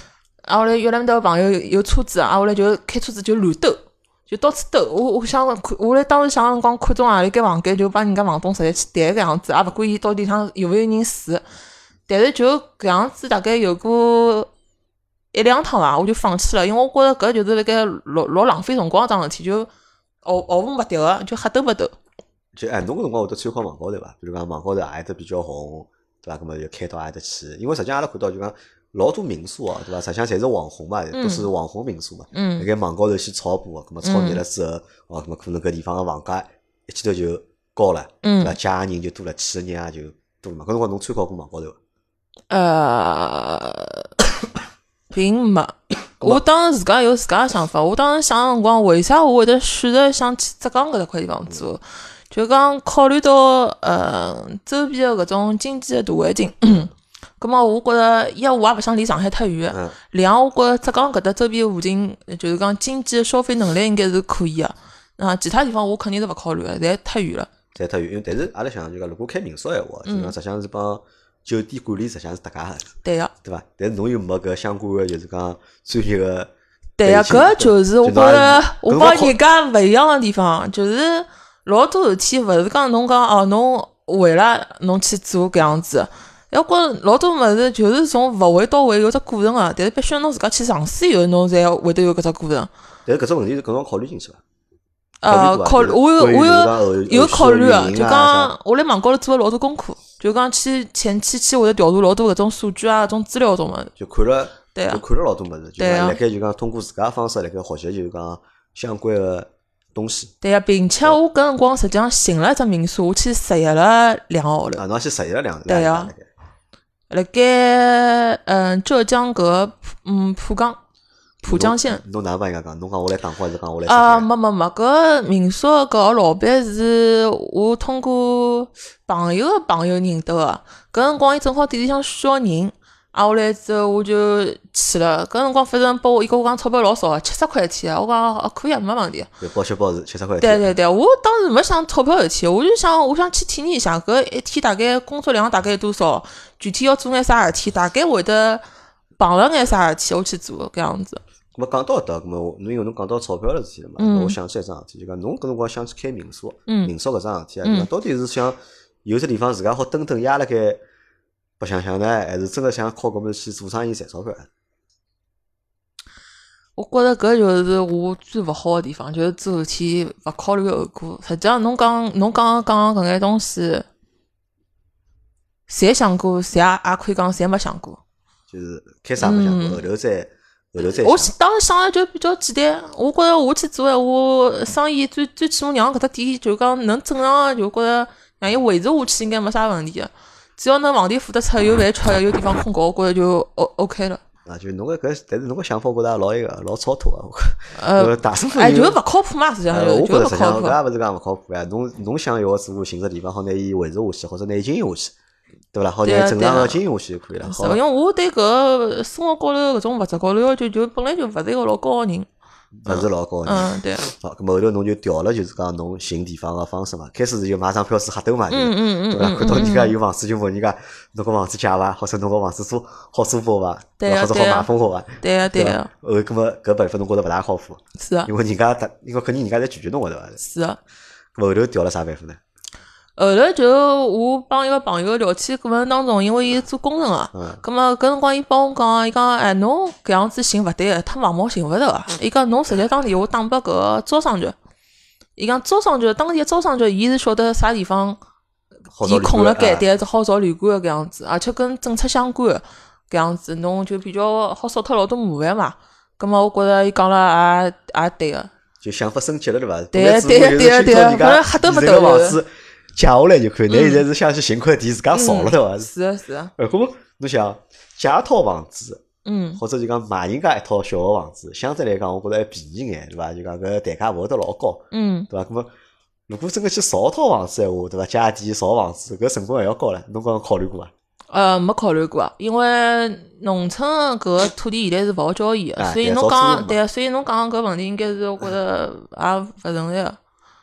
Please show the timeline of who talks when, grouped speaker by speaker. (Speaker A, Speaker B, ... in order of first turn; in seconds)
Speaker A: 0.5-11.4, 12.1-14.5, 15.3-19.7, 20.2-21.9, 31.1-31.5, 32.3-32.7, 34.0-34.4, 38.2-38.6, 42.5-44.1, 45.1-67.5, 70.1-70.3, 73.0-73.3, 77.0-92.7, 95.2-103.9, 104.7-105.0, 105.8-106.2, 110.4-114.8, 115.7-116.1, 117.1-120.8, 121.4-122.0, 123.9-139.3, 140.4-148.6, 149.2-151.2, 154.0-154.4, 156.7-156.9, 157.6-157.9, 166.8-173.9, 175.7-178.0, 179.2-179.8, 180.8-194.2, 197.8-200.8, 206.0-206.8, 207.4-212.3, 212.9-214.0, 218.5-220.0, 224.0-224.7, 225.2-225.9, 228.0-228.3, 230.4-230.8, 233.2-244.6, 245.4-248.2, 249.0-258.5, 259.9-262.4, 263.7-264.0, 265.1-266.5, 269.2-269.6, 274.9-275.3, 281.3-290.2
Speaker B: 22.5-41.8, 59.7-60.0, 67.8-76.5, 77.0-79.4, 93.1-94.4, 95.3-98.5, 104.0-110.3, 114.7-116.3, 121.5-124.3, 139.4-140.7, 151.6-160.8, 161.6-164.5, 178.5-181.3, 194.5-199.0, 199.7-205.1, 205.7-207.8, 212.7-230.4, 231.3-232.4, 237.3-237.6, 248.9-249.9, 258.8-265.9, 266.6-269.0, 269.6-275.7, 276.3-280.9, 285.8-286.8